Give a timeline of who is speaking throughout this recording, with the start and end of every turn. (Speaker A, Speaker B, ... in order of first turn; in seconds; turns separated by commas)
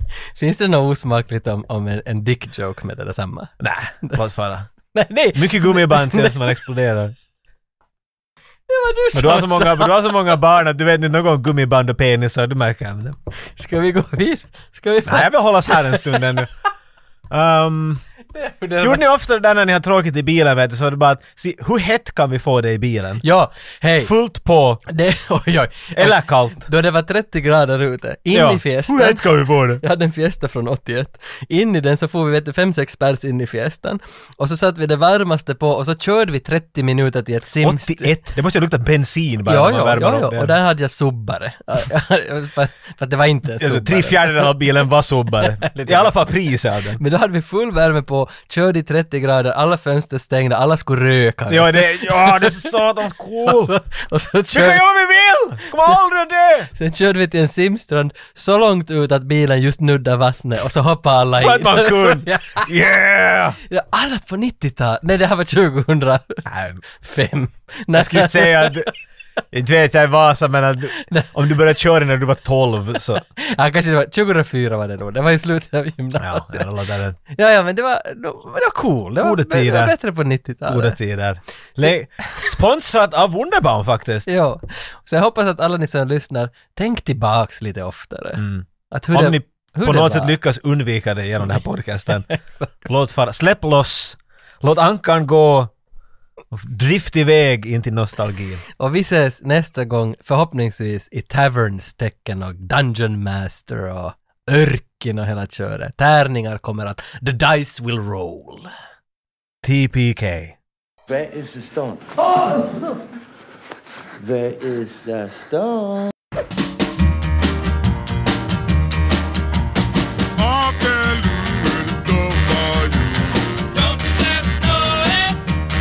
Speaker A: 0.3-3.5, Speaker B: 3.6-4.7, Speaker A: 4.9-6.5, Speaker B: 5.3-7.1, Speaker A: 8.7-10.1, Speaker B: 9.1-13.2, Speaker A: 13.4-16.4, Speaker B: 15.1-16.5, Speaker B: 17.3-18.0, Speaker A: 18.4-19.1, Speaker B: 18.8-23.2, Speaker A: 23.2-24.1, Speaker B: 24.0-24.8, Speaker A: 24.9-38.1, Speaker B: 25.9-26.7, Speaker B: 28.3-29.8, Speaker B: 37.6-40.6, Speaker A: 39.5-44.6, Speaker B: 43.6-47.0, Speaker A: 45.4-46.2, Speaker A: 47.0-52.7, Speaker B: 51.5-53.7, Speaker A: 53.4-54.8, Speaker B: 54.5-56.7, Speaker A: 56.7-62.6, Speaker B: 61.4-63.6, Speaker A: 63.7-68.9, Speaker B: 66.5-66.8, Speaker B: 67.9-68.9, Speaker B: 69.5-73.2, Speaker A: 71.0-71.3, Speaker A: 73.4-76.7, Speaker B: 76.2-77.2, Speaker A: 77.3-81.0, Speaker B: 79.2-80.0, Speaker B: 80.7-84.3, Speaker A: 81.8-82.5, Speaker A: 84.3-90.3, Speaker B: 88.4-92.3, Speaker A: 92.3-92.7, Speaker B: 92.8-95.7, Speaker B: 96.5-98.6, Speaker A: 98.8-108.7, Speaker B: 109.6-110.5, Speaker C: 111.1-113.0, Speaker C: 114.2-116.1, Speaker C: 120.4-125.4